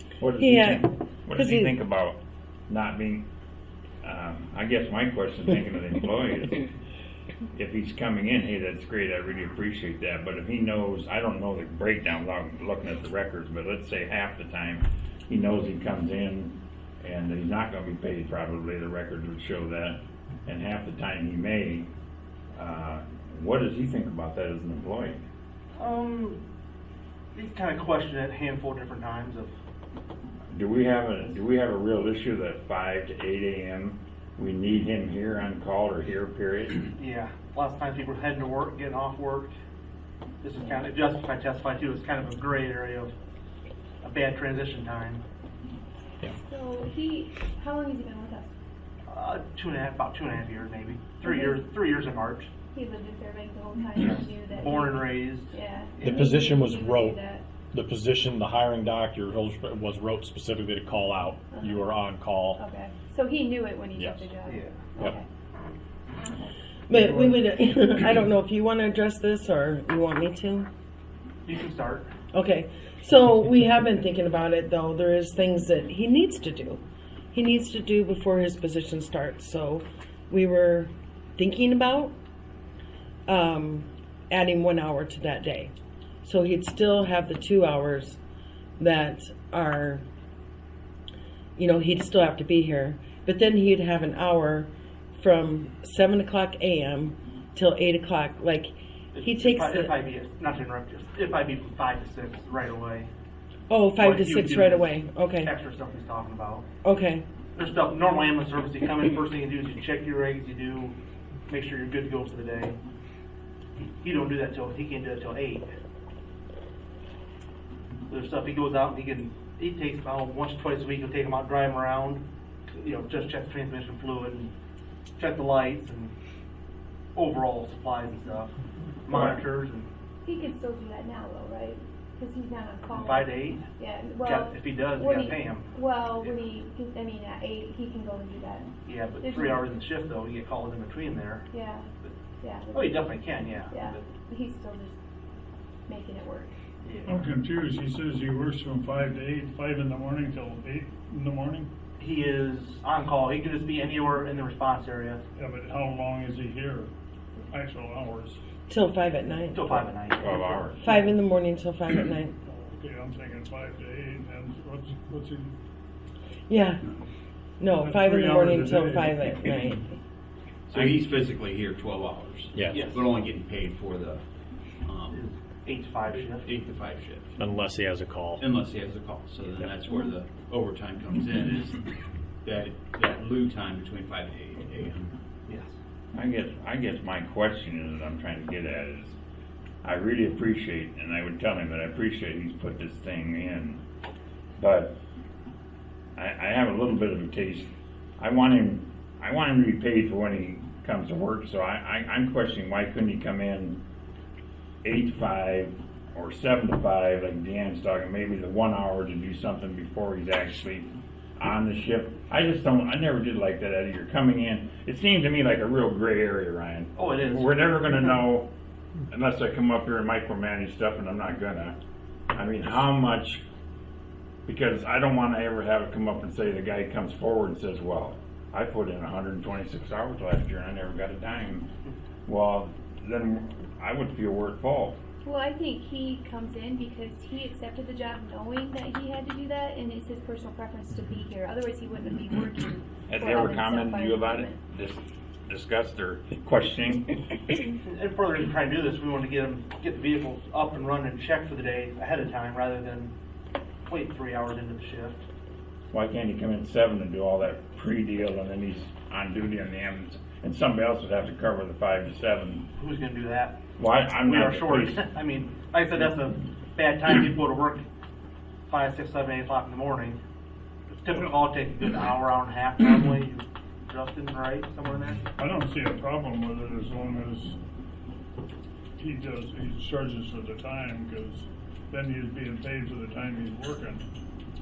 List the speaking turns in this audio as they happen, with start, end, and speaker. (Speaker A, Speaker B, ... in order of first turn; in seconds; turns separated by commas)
Speaker A: 0.2-3.3, Speaker B: 0.4-1.7, Speaker A: 4.0-6.7, Speaker A: 7.5-21.9, Speaker A: 22.6-25.2, Speaker C: 25.8-26.4, Speaker C: 27.3-29.5, Speaker A: 30.5-36.9, Speaker C: 37.0-39.5, Speaker C: 40.4-43.1, Speaker D: 40.6-40.9, Speaker C: 44.0-45.2, Speaker D: 46.3-48.5, Speaker C: 49.1-52.5, Speaker D: 51.2-51.6, Speaker D: 52.7-57.5, Speaker C: 54.0-56.2, Speaker E: 56.0-57.2, Speaker E: 57.7-62.6, Speaker D: 61.5-61.9, Speaker D: 62.5-65.2, Speaker C: 64.4-64.8, Speaker B: 66.9-70.7, Speaker F: 67.0-67.3, Speaker C: 71.5-72.1, Speaker B: 72.3-76.8, Speaker B: 77.3-82.1, Speaker B: 83.3-85.7, Speaker B: 86.2-88.2, Speaker B: 88.8-90.0, Speaker B: 91.6-100.0, Speaker C: 99.1-103.1, Speaker B: 103.7-105.5, Speaker C: 104.0-106.7, Speaker B: 106.8-107.2, Speaker C: 107.5-111.0, Speaker C: 111.5-112.8, Speaker C: 114.0-115.7, Speaker C: 118.1-124.5, Speaker C: 125.2-126.1, Speaker C: 127.2-129.9, Speaker D: 130.2-139.6, Speaker C: 132.9-133.7, Speaker C: 134.2-136.3, Speaker C: 138.8-141.5, Speaker D: 141.5-141.9, Speaker D: 142.4-145.0, Speaker C: 142.7-144.1, Speaker D: 145.9-146.5, Speaker C: 146.8-147.3, Speaker F: 147.1-151.7, Speaker C: 152.0-155.2, Speaker F: 155.4-156.9, Speaker F: 157.5-158.4, Speaker B: 158.7-159.9, Speaker C: 159.5-160.8, Speaker A: 160.2-160.9, Speaker B: 160.8-162.3, Speaker F: 162.4-165.5, Speaker B: 166.5-166.8, Speaker B: 167.6-169.9, Speaker F: 167.8-169.8, Speaker G: 170.7-174.2, Speaker C: 172.7-173.1, Speaker G: 174.8-175.2, Speaker C: 175.1-176.5, Speaker G: 176.1-177.4, Speaker E: 177.4-178.4, Speaker G: 178.4-181.8, Speaker G: 182.4-185.1, Speaker C: 185.5-185.8, Speaker A: 186.1-189.2, Speaker A: 189.8-193.8, Speaker A: 194.6-195.0, Speaker A: 196.2-203.8, Speaker A: 204.8-218.5, Speaker C: 216.9-217.9, Speaker A: 219.1-221.8, Speaker A: 222.3-223.4, Speaker A: 224.5-231.7, Speaker A: 232.3-235.0, Speaker D: 235.2-244.6, Speaker A: 243.1-247.3, Speaker C: 247.8-253.1, Speaker C: 253.9-255.2, Speaker A: 255.9-262.7, Speaker C: 262.8-263.6, Speaker A: 263.8-265.1, Speaker C: 264.2-267.8, Speaker C: 268.7-270.2, Speaker C: 270.9-275.2, Speaker F: 275.4-277.6, Speaker F: 279.0-284.0